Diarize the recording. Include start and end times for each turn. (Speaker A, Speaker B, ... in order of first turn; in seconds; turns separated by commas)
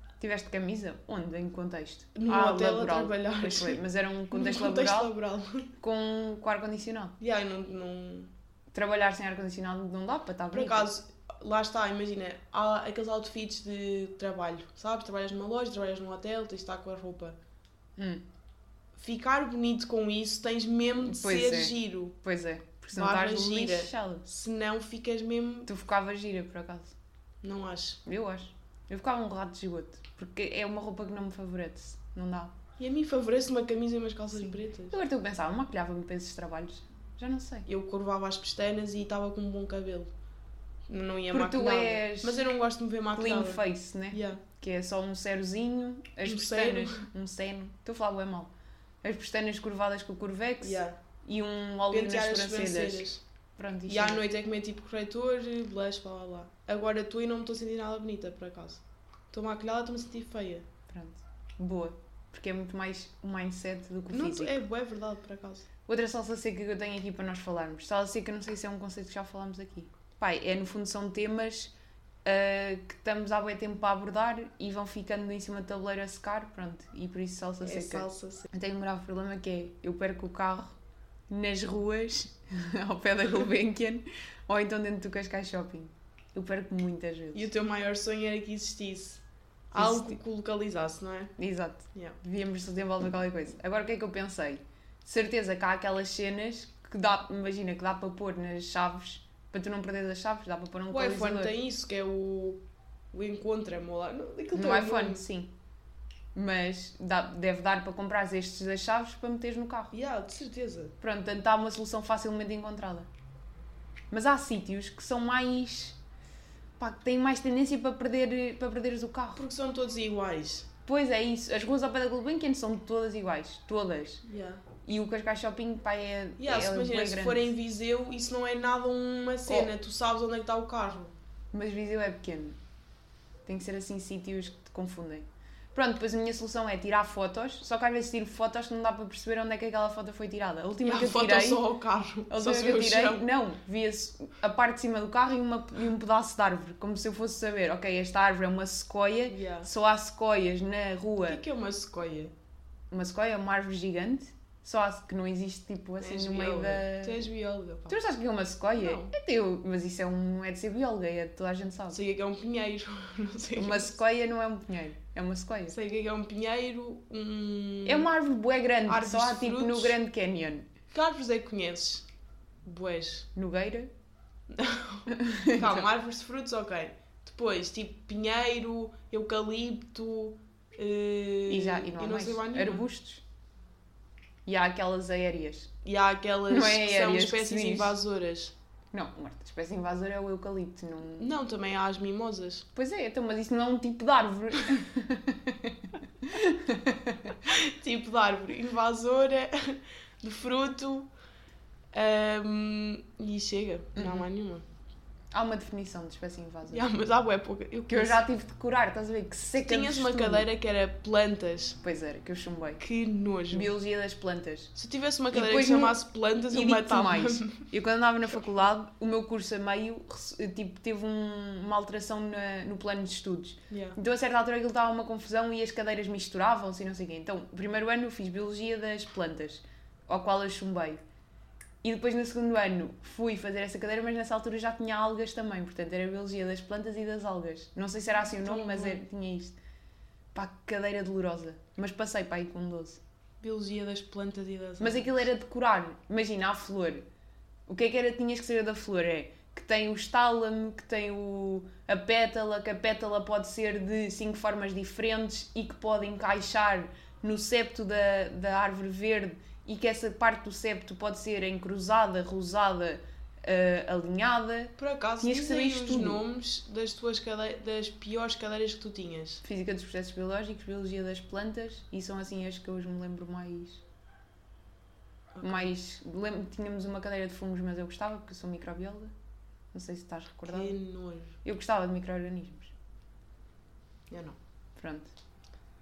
Speaker A: 0.2-5.1, Speaker B: 2.1-5.7, Speaker A: 5.8-7.2, Speaker B: 7.2-8.3, Speaker A: 8.7-10.9, Speaker B: 10.5-17.4, Speaker A: 18.0-18.2, Speaker B: 18.9-22.2, Speaker A: 21.0-24.2, Speaker B: 22.9-25.7, Speaker A: 25.7-26.9, Speaker B: 27.4-28.0, Speaker A: 28.0-32.5, Speaker B: 32.8-35.0, Speaker A: 34.3-37.7, Speaker B: 37.6-40.1, Speaker B: 40.9-44.4, Speaker A: 41.3-42.5, Speaker A: 43.1-48.5, Speaker B: 46.2-47.1, Speaker A: 49.0-54.2, Speaker B: 50.6-51.0, Speaker B: 51.9-53.2, Speaker B: 53.9-60.7, Speaker A: 60.9-64.6, Speaker B: 64.1-65.7, Speaker A: 65.9-71.7, Speaker A: 72.2-80.8, Speaker B: 77.6-78.5, Speaker A: 81.3-87.5, Speaker B: 87.3-91.3, Speaker A: 89.7-90.2, Speaker A: 91.4-101.5, Speaker B: 100.9-102.6, Speaker B: 103.1-105.2, Speaker A: 104.5-105.5, Speaker A: 106.3-109.9, Speaker B: 109.9-110.9, Speaker A: 111.0-113.1, Speaker A: 114.1-116.0, Speaker A: 116.8-119.4, Speaker B: 119.3-120.7, Speaker A: 120.8-124.2, Speaker B: 124.2-124.6, Speaker A: 124.8-127.5, Speaker B: 126.4-131.1, Speaker A: 131.5-132.6, Speaker A: 133.4-141.6, Speaker B: 140.8-143.2, Speaker A: 142.3-151.4, Speaker B: 149.3-149.7, Speaker B: 151.2-152.3, Speaker A: 152.9-157.3, Speaker B: 156.0-158.0, Speaker A: 157.9-162.0, Speaker B: 158.8-159.1, Speaker B: 161.9-163.9, Speaker A: 163.5-165.8, Speaker B: 165.7-168.1, Speaker A: 167.8-170.7, Speaker B: 168.9-170.0, Speaker B: 170.9-172.1, Speaker B: 172.6-173.3, Speaker A: 173.3-173.9, Speaker B: 174.5-182.9, Speaker A: 175.1-175.8, Speaker A: 181.5-183.2, Speaker A: 184.4-185.7, Speaker B: 185.8-188.5, Speaker A: 186.5-187.9, Speaker A: 188.9-191.3, Speaker B: 191.2-192.7, Speaker A: 192.7-197.4, Speaker B: 197.5-201.1, Speaker B: 201.9-204.6, Speaker A: 203.9-204.2, Speaker A: 205.3-206.9, Speaker B: 206.7-208.2, Speaker A: 207.9-210.5, Speaker B: 209.6-211.8, Speaker A: 211.8-212.8, Speaker B: 212.8-213.7, Speaker A: 213.5-214.7, Speaker B: 214.7-217.7, Speaker A: 215.3-231.0, Speaker B: 223.7-224.0, Speaker A: 231.8-239.6, Speaker B: 238.4-239.0, Speaker A: 240.3-243.0, Speaker B: 243.4-245.2, Speaker A: 244.8-247.0, Speaker A: 247.7-266.2, Speaker B: 264.8-269.4, Speaker A: 269.4-273.8, Speaker B: 275.3-275.7, Speaker A: 275.4-279.1, Speaker A: 279.7-280.7, Speaker B: 280.4-281.4, Speaker A: 281.4-282.7, Speaker B: 284.1-284.4, Speaker A: 284.8-285.1